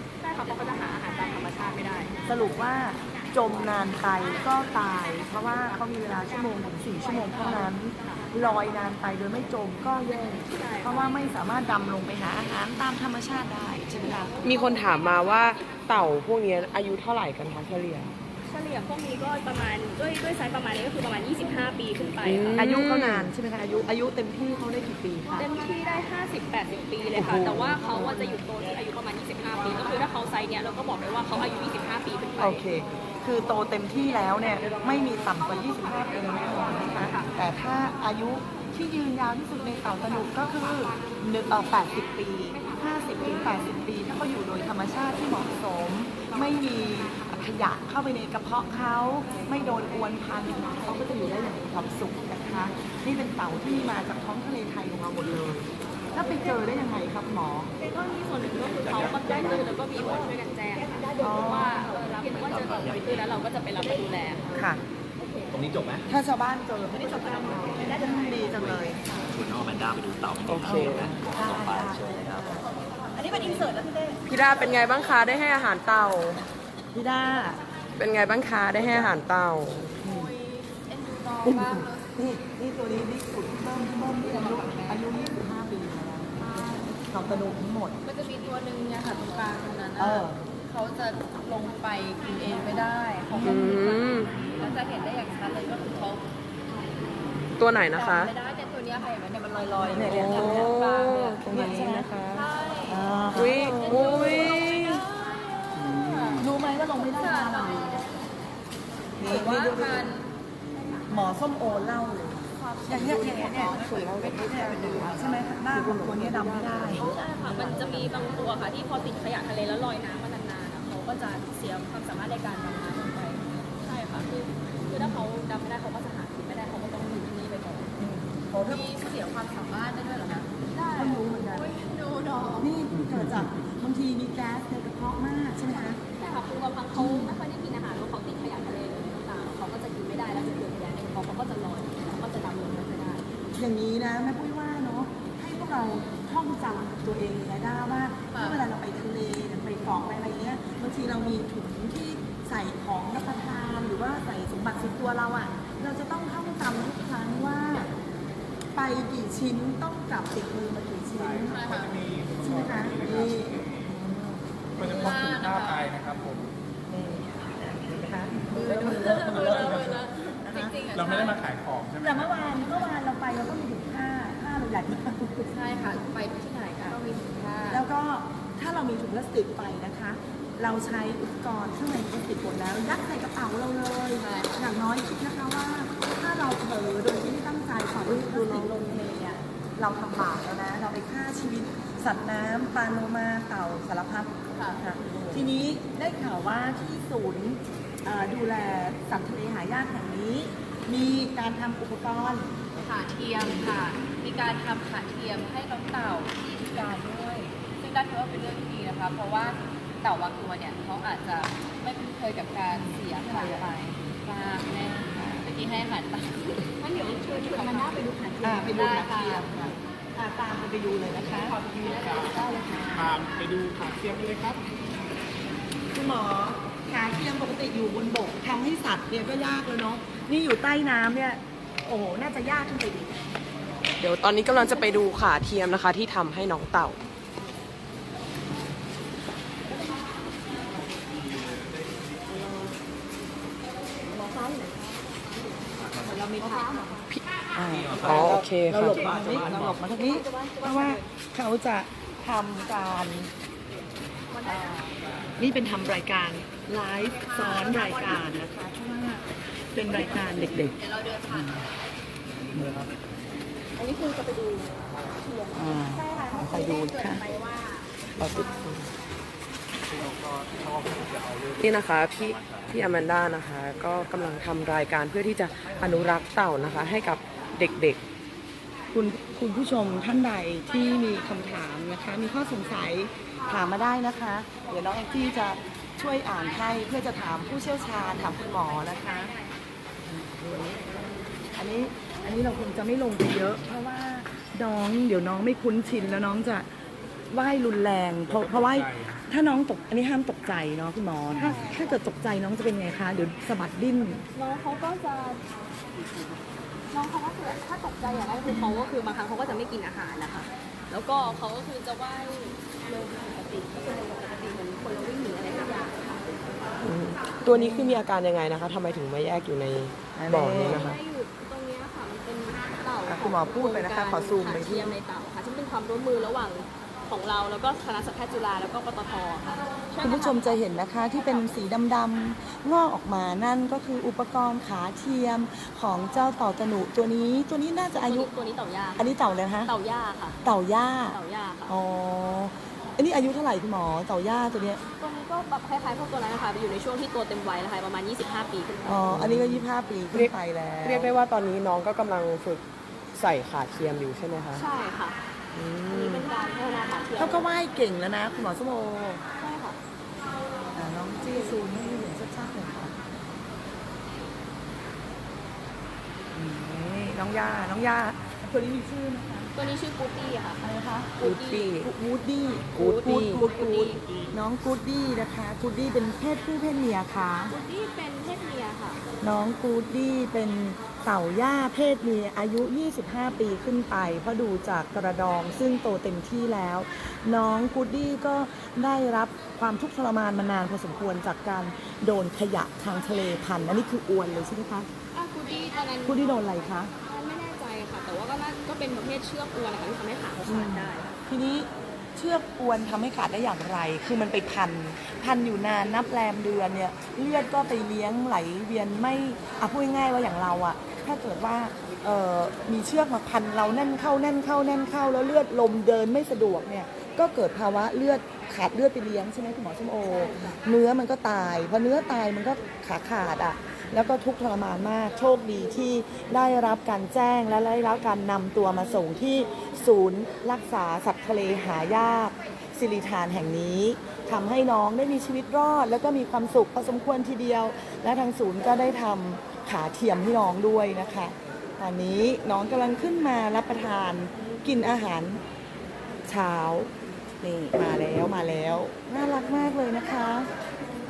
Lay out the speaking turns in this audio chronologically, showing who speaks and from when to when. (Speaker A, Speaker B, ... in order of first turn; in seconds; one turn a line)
Speaker A: 0.2-2.1
Speaker B: 2.2-14.4
Speaker A: 7.4-8.2
Speaker A: 10.5-11.1
Speaker C: 14.4-18.1
Speaker A: 18.4-22.6
Speaker C: 22.2-23.3
Speaker B: 22.5-25.5
Speaker A: 25.4-32.6
Speaker B: 27.1-28.4
Speaker B: 32.4-57.7
Speaker D: 43.1-43.4
Speaker A: 57.8-64.5
Speaker E: 58.4-60.3
Speaker D: 60.9-62.1
Speaker B: 61.2-61.9
Speaker E: 62.2-63.4
Speaker B: 64.5-64.8
Speaker E: 65.5-66.1
Speaker B: 66.1-69.0
Speaker D: 67.0-69.3
Speaker A: 67.3-68.1
Speaker E: 68.5-72.5
Speaker C: 70.5-71.2
Speaker B: 70.6-72.6
Speaker D: 72.7-74.2
Speaker B: 73.2-73.7
Speaker C: 74.3-76.4
Speaker B: 76.9-77.6
Speaker C: 78.0-79.9
Speaker E: 78.8-79.2
Speaker B: 80.0-80.3
Speaker D: 80.0-82.2
Speaker B: 81.4-88.0
Speaker D: 84.2-85.1
Speaker D: 86.4-86.9
Speaker D: 88.0-96.3
Speaker B: 90.0-90.4
Speaker B: 93.3-93.8
Speaker C: 93.4-94.4
Speaker B: 94.3-94.7
Speaker C: 97.6-98.3
Speaker D: 97.8-101.4
Speaker B: 99.8-100.7
Speaker C: 99.9-102.5
Speaker B: 101.4-102.1
Speaker D: 102.3-108.1
Speaker B: 102.9-104.1
Speaker C: 103.3-105.0
Speaker A: 103.8-105.0
Speaker F: 105.7-106.5
Speaker B: 106.4-108.1
Speaker B: 109.2-110.1
Speaker D: 109.2-110.3
Speaker B: 111.1-117.1
Speaker D: 112.6-114.7
Speaker C: 113.1-117.7
Speaker A: 116.9-127.9
Speaker B: 124.9-125.2
Speaker B: 128.0-128.9
Speaker D: 128.6-132.7
Speaker B: 130.9-131.7
Speaker B: 132.6-136.0
Speaker A: 136.2-143.2
Speaker B: 136.9-137.3
Speaker B: 143.5-157.9
Speaker D: 148.3-148.6
Speaker B: 158.7-161.8
Speaker F: 161.1-163.9
Speaker D: 161.5-162.0
Speaker B: 162.4-164.4
Speaker F: 164.8-166.5
Speaker D: 164.8-165.9
Speaker B: 166.9-169.9
Speaker D: 168.5-171.4
Speaker F: 168.9-170.1
Speaker B: 170.4-170.8
Speaker F: 170.9-172.4
Speaker B: 172.0-175.5
Speaker D: 175.5-177.8
Speaker B: 177.7-189.1
Speaker D: 184.2-184.7
Speaker D: 188.0-189.4
Speaker B: 189.8-202.5
Speaker D: 194.5-195.4
Speaker D: 202.8-219.5
Speaker B: 212.7-213.7
Speaker B: 215.1-215.5
Speaker B: 217.5-221.6
Speaker A: 217.5-217.8
Speaker D: 221.1-223.2
Speaker F: 221.8-224.6
Speaker B: 225.9-233.2
Speaker C: 234.0-237.0
Speaker F: 240.8-242.7
Speaker D: 244.1-247.0
Speaker E: 245.8-246.1
Speaker B: 246.1-253.3
Speaker E: 247.7-249.8
Speaker C: 248.0-249.1
Speaker D: 249.8-251.0
Speaker D: 254.3-255.0
Speaker B: 255.4-260.7
Speaker D: 257.1-258.3
Speaker D: 259.9-261.6
Speaker B: 262.5-262.9
Speaker A: 263.8-264.6
Speaker D: 263.8-264.7
Speaker D: 265.2-267.9
Speaker B: 265.5-267.2
Speaker B: 268.1-268.8
Speaker F: 269.8-273.1
Speaker C: 271.6-278.0
Speaker B: 278.9-289.3
Speaker D: 289.1-289.3
Speaker B: 290.1-290.9
Speaker B: 291.5-296.7
Speaker B: 297.3-304.2
Speaker F: 298.2-299.2
Speaker A: 301.4-301.9
Speaker A: 304.3-305.4
Speaker A: 306.9-316.2
Speaker B: 311.2-311.4
Speaker C: 316.8-320.9
Speaker B: 317.5-318.0
Speaker B: 320.1-320.9
Speaker A: 320.6-331.7
Speaker B: 323.1-324.9
Speaker B: 330.0-338.3
Speaker A: 337.9-339.1
Speaker B: 339.0-339.7
Speaker A: 339.7-340.4
Speaker B: 340.4-344.8
Speaker A: 341.1-341.7
Speaker A: 345.0-349.3
Speaker B: 348.8-351.1
Speaker C: 349.1-350.3
Speaker C: 350.8-352.6
Speaker C: 353.1-354.6
Speaker A: 354.5-355.2
Speaker C: 355.5-356.3
Speaker A: 355.9-357.4
Speaker B: 357.1-359.2
Speaker A: 359.4-359.8
Speaker B: 360.7-362.9
Speaker B: 366.3-369.5
Speaker A: 369.6-370.6
Speaker B: 370.6-371.1
Speaker A: 371.2-371.8
Speaker C: 371.2-371.9
Speaker B: 371.8-377.5
Speaker C: 372.8-373.5
Speaker A: 372.8-374.0
Speaker F: 374.0-374.4
Speaker A: 377.5-379.0
Speaker B: 379.2-394.9
Speaker A: 395.1-396.2
Speaker B: 396.0-396.9
Speaker A: 397.0-401.2
Speaker B: 400.4-445.4
Speaker A: 420.1-420.6
Speaker B: 446.2-450.5